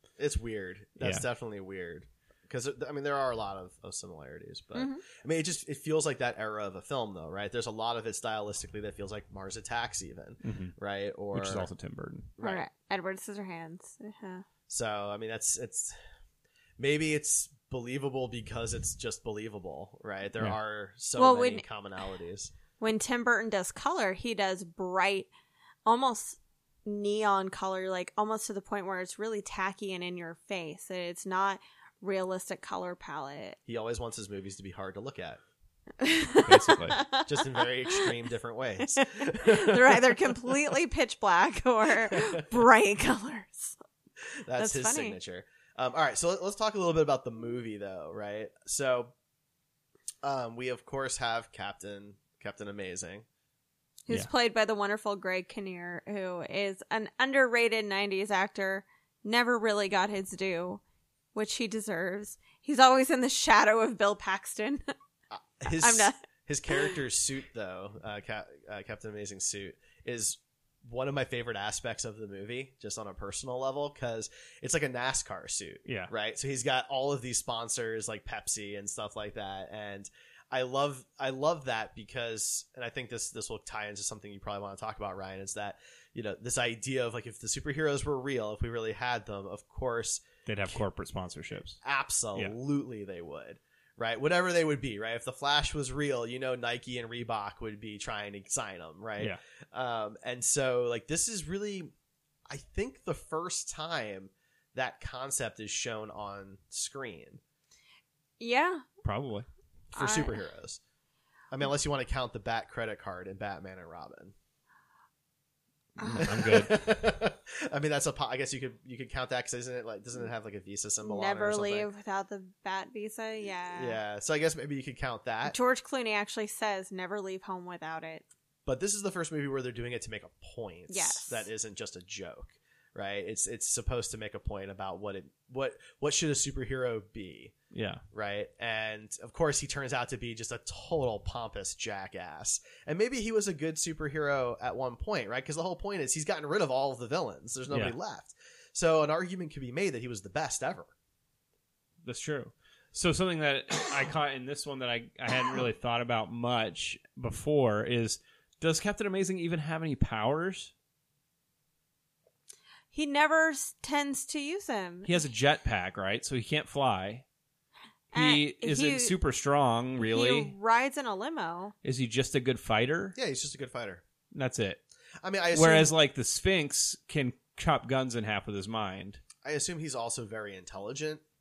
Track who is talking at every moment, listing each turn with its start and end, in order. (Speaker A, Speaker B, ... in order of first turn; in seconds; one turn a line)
Speaker A: 0.2-11.7
Speaker B: 4.8-5.0
Speaker C: 10.4-10.7
Speaker C: 11.3-12.3
Speaker A: 12.4-12.6
Speaker B: 12.4-14.4
Speaker A: 14.7-16.0
Speaker A: 16.8-22.5
Speaker B: 21.2-21.6
Speaker B: 22.8-25.3
Speaker B: 25.9-33.6
Speaker A: 33.7-35.4
Speaker B: 36.0-38.1
Speaker C: 36.4-37.0
Speaker A: 37.3-40.7
Speaker B: 38.9-43.8
Speaker A: 42.0-42.4
Speaker A: 44.5-49.1
Speaker B: 44.6-45.2
Speaker A: 50.2-53.3
Speaker B: 54.1-60.8
Speaker B: 61.4-64.8
Speaker A: 65.3-90.8
Speaker B: 65.8-66.2
Speaker C: 75.9-76.1
Speaker C: 90.5-91.8
Speaker A: 91.8-101.9
Speaker A: 102.5-107.4
Speaker B: 108.4-108.9
Speaker C: 109.0-109.5
Speaker A: 109.9-110.8
Speaker B: 110.0-110.4
Speaker A: 111.5-114.3
Speaker B: 116.0-116.3
Speaker C: 116.0-116.8
Speaker A: 116.2-121.9
Speaker B: 121.0-124.0
Speaker A: 123.7-125.6
Speaker B: 125.5-128.2
Speaker A: 128.7-137.5
Speaker B: 130.9-131.4
Speaker C: 137.7-138.0
Speaker A: 138.1-150.9
Speaker C: 152.0-160.7
Speaker B: 162.9-165.1
Speaker C: 165.1-167.2
Speaker B: 168.1-169.1
Speaker C: 168.1-170.5
Speaker B: 170.0-171.7
Speaker C: 171.8-173.2
Speaker A: 173.2-174.0
Speaker C: 174.3-174.8
Speaker A: 175.2-175.9
Speaker C: 175.5-179.2
Speaker A: 179.4-181.2